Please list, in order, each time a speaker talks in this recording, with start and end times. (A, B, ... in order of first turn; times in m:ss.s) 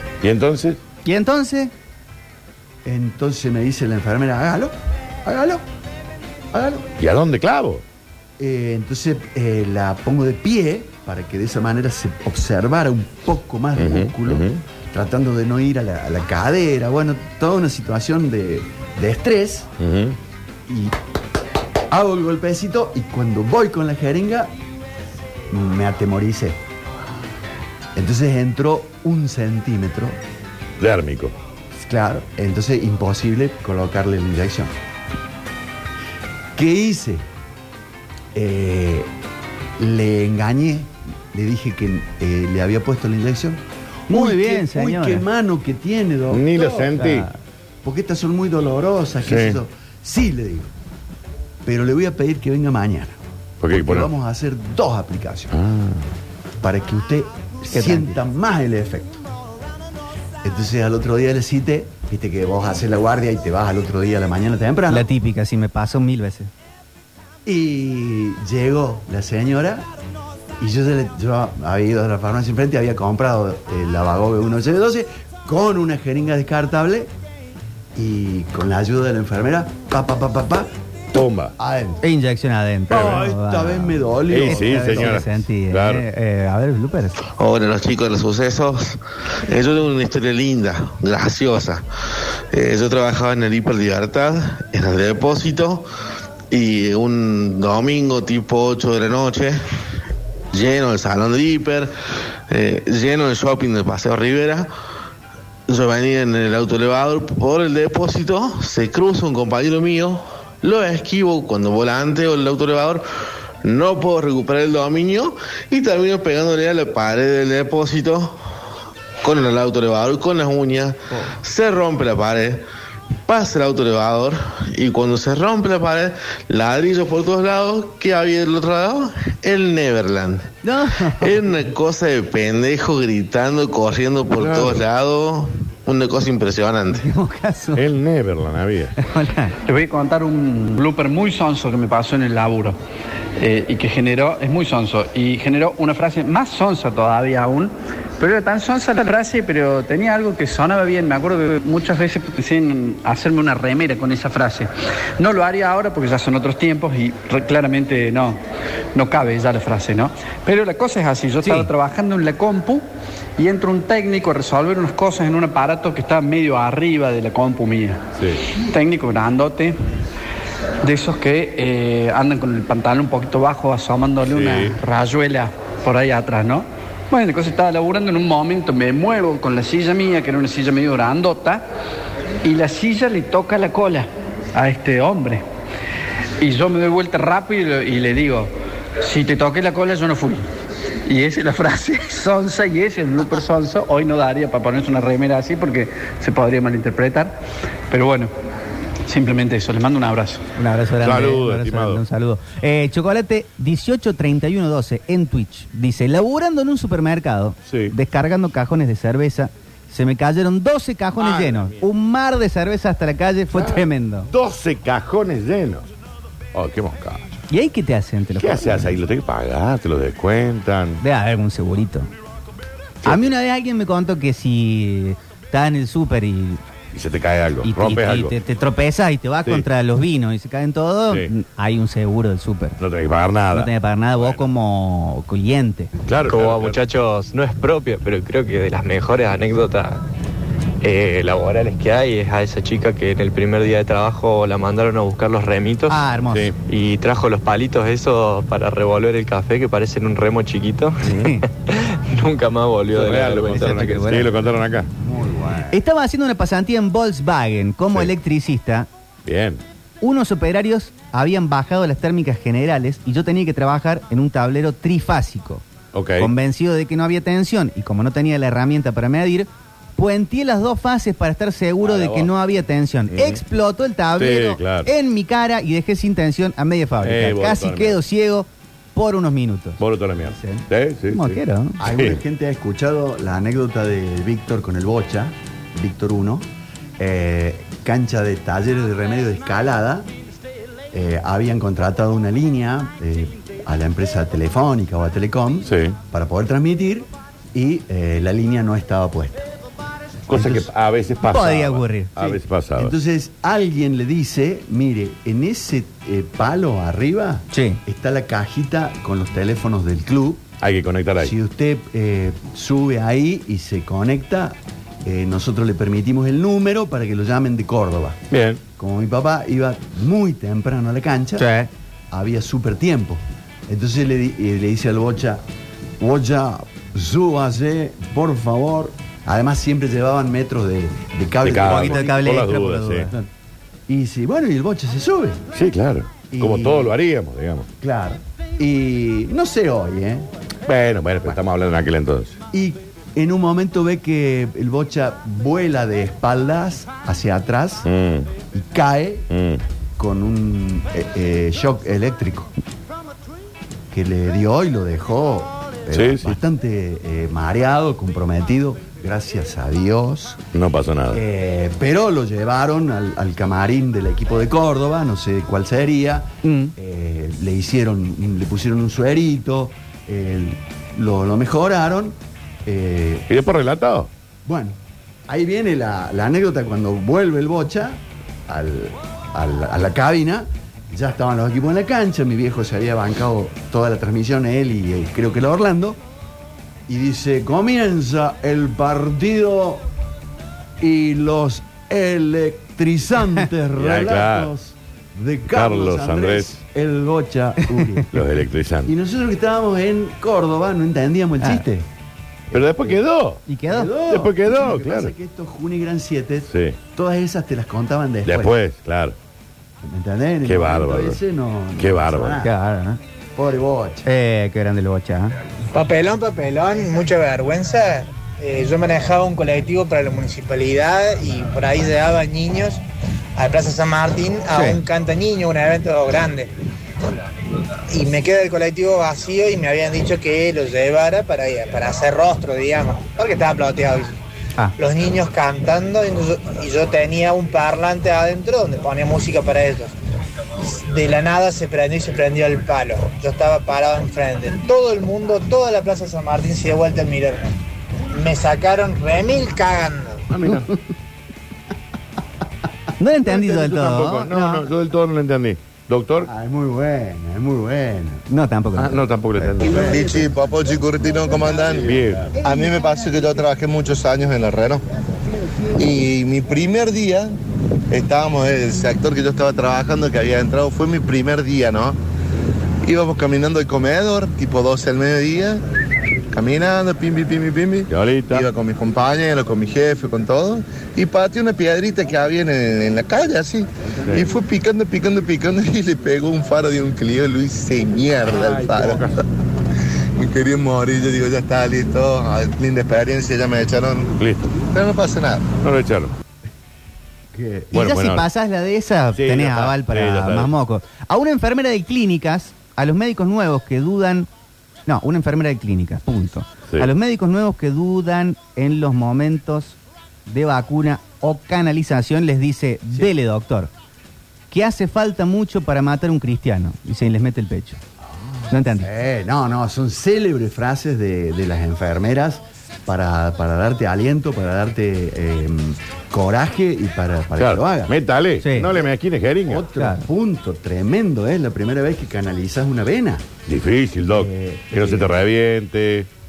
0:00.2-0:00.8 A
0:01.0-0:01.7 B
0:02.8-0:05.6 C
0:06.5-0:06.9 C
0:07.0-0:07.8 A
0:08.4-0:19.7 C
0:13.8-0:14.6 A
0:19.8-0:20.2 A
0:20.7-0:20.9 C
0:21.9-0:24.5 C
0:25.5-0:26.6 C
0:27.9-0:30.2 C
0:30.8-0:31.3 A
0:31.8-0:34.7 C
0:36.5-0:37.2 C
0:38.3-0:39.1 C
0:39.8-0:47.1 C
0:44.1-0:45.2 B
0:46.3-0:47.3 A
0:47.0-0:47.3 B
0:47.8-0:50.7 C
0:49.2-0:49.6 A
0:51.6-0:53.2 C
0:53.6-0:54.1 A
0:53.7-0:55.5 C
0:55.5-0:56.1 A
0:56.6-0:59.2 C
0:57.7-0:58.2 B
1:00.4-1:05.1 C
1:04.9-1:06.5 B
1:07.4-1:09.9 C
1:10.6-1:17.1 C
1:17.9-1:20.7 C
1:21.1-1:21.5 A
1:21.6-1:22.0 C
1:22.0-1:27.2 B
1:22.9-1:25.2 C
1:24.3-1:26.0 A
1:27.4-1:31.8 D
1:32.5-1:35.8 D
1:36.5-1:39.6 D
1:40.5-1:41.9 D
1:42.5-1:44.7 D
1:45.7-1:53.0 D
1:53.6-1:58.4 D
1:59.2-2:02.6 D
2:03.3-2:10.5 D
2:10.6-2:11.5 B
2:11.2-2:17.0 D
2:14.4-2:14.8 A
2:16.9-2:17.9 B
2:17.7-2:18.9 A
2:19.0-2:19.5 B
2:19.6-2:22.8 E
2:23.4-2:38.4 E
2:38.9-2:42.8 E
2:41.4-2:41.7 B
2:43.4-2:48.0 E
2:48.5-2:49.8 E
2:50.8-3:01.6 E
2:54.2-2:54.8 A
3:02.4-3:05.4 E
3:06.4-3:08.5 E
3:09.0-3:10.4 E
3:11.1-3:17.4 E
3:17.9-3:18.3 E
3:19.1-3:20.4 E
3:20.6-3:34.3 B
3:21.0-3:22.0 A
3:27.6-3:27.9 A
3:31.2-3:31.9 A
3:33.5-3:35.9 A
3:36.5-3:37.3 A
3:37.5-3:39.0 B
3:38.4-3:41.0 A
3:41.0-3:42.1 B
3:43.0-3:46.6 B
3:46.9-3:48.3 A
3:47.6-3:52.8 B
3:52.8-3:54.5 A
3:53.5-3:55.9 B
3:56.1-3:56.8 A
3:56.3-4:00.0 F
4:00.8-4:06.0 F
4:05.9-4:06.5 B
4:06.3-4:06.6 A
4:06.7-4:14.2 F
4:11.0-4:11.4 A
4:11.0-4:11.4 B
4:12.9-4:14.9 A
4:13.5-4:14.3 B
4:15.0-4:15.8 C
4:15.7-4:18.9 B
4:19.2-4:19.6 A
4:20.0-4:25.6 B
4:25.9-4:26.3 A
4:26.2-4:41.8 B
4:31.8-4:32.3 A
4:33.1-4:33.4 A
4:34.2-4:34.9 A
4:37.0-4:38.0 A
4:39.8-4:42.2 A
4:41.8-4:46.4 C
4:47.0-4:50.1 C
4:50.9-4:59.5 C
4:55.6-4:56.0 A
5:00.3-5:02.9 A
5:00.3-5:00.6 B
5:01.2-5:02.4 B
5:02.8-5:10.4 C
5:07.5-5:07.8 B
5:10.6-5:11.3 A
5:11.2-5:18.2 C
5:18.3-5:18.6 A
5:18.8-5:21.5 C
5:21.4-5:21.7 B
5:22.1-5:25.4 C
5:26.0-5:32.1 C
5:31.4-5:33.1 A
5:31.6-5:33.1 B
5:33.9-5:35.4 C
5:35.5-5:37.7 A
5:36.3-5:36.9 C
5:37.8-5:40.3 C
5:40.6-5:42.4 A
5:42.5-5:47.9 C
5:47.8-5:48.3 A
5:48.5-5:49.3 C
5:49.3-5:49.6 A
5:50.0-5:52.5 C
5:53.9-6:00.4 C
5:55.9-5:56.4 A
6:00.5-6:01.2 A
6:01.1-6:13.3 C
6:06.4-6:06.7 B
6:13.3-6:14.1 A
6:14.4-6:14.8 C
6:15.3-6:26.0 C
6:26.9-6:29.8 C
6:30.8-6:38.2 C
6:33.8-6:34.5 A
6:35.5-6:36.6 A
6:38.1-6:38.9 A
6:38.8-6:41.9 C
6:42.5-6:43.0 C
6:42.5-6:43.4 A
6:43.5-6:43.9 B
6:43.7-6:48.5 C
6:44.1-6:45.1 A
6:46.5-6:46.8 A
6:48.2-6:49.2 A
6:49.8-6:52.5 C
6:50.4-6:51.2 A
6:51.8-6:52.4 A
6:52.4-6:53.0 B
6:53.4-6:54.0 C
6:54.0-6:55.3 B
6:55.7-7:02.8 G
7:03.4-7:06.5 G
7:04.5-7:04.8 B
7:07.9-7:14.1 G
7:14.8-7:19.9 G
7:20.6-7:27.5 G
7:28.1-7:30.2 G
7:30.3-7:30.7 A
7:33.0-7:34.7 B
7:33.3-7:36.3 A
7:36.2-7:38.2 C
7:38.3-7:39.6 B
7:38.8-7:40.3 A
7:39.6-7:39.9 C
7:39.8-7:44.8 H
7:41.8-7:42.3 A
7:45.7-7:47.4 H
7:47.9-7:52.0 H
7:52.8-7:55.6 H
7:56.3-8:09.1 H
7:57.9-7:58.5 A
8:08.3-8:09.1 A
8:10.2-8:14.1 H
8:14.2-8:14.5 A
8:14.7-8:15.5 H
8:15.6-8:16.1 A
8:17.3-8:17.7 C
8:17.7-8:24.3 B
8:17.7-8:18.2 A
8:19.1-8:20.5 A
8:24.9-8:33.7 B
8:34.5-8:37.8 B
8:38.5-8:38.9 B
8:38.7-8:47.9 C
8:47.4-8:49.7 A
8:48.4-8:48.7 B
8:49.5-8:53.2 C
8:49.8-8:50.0 B
8:53.4-8:56.1 A
8:54.0-8:55.1 C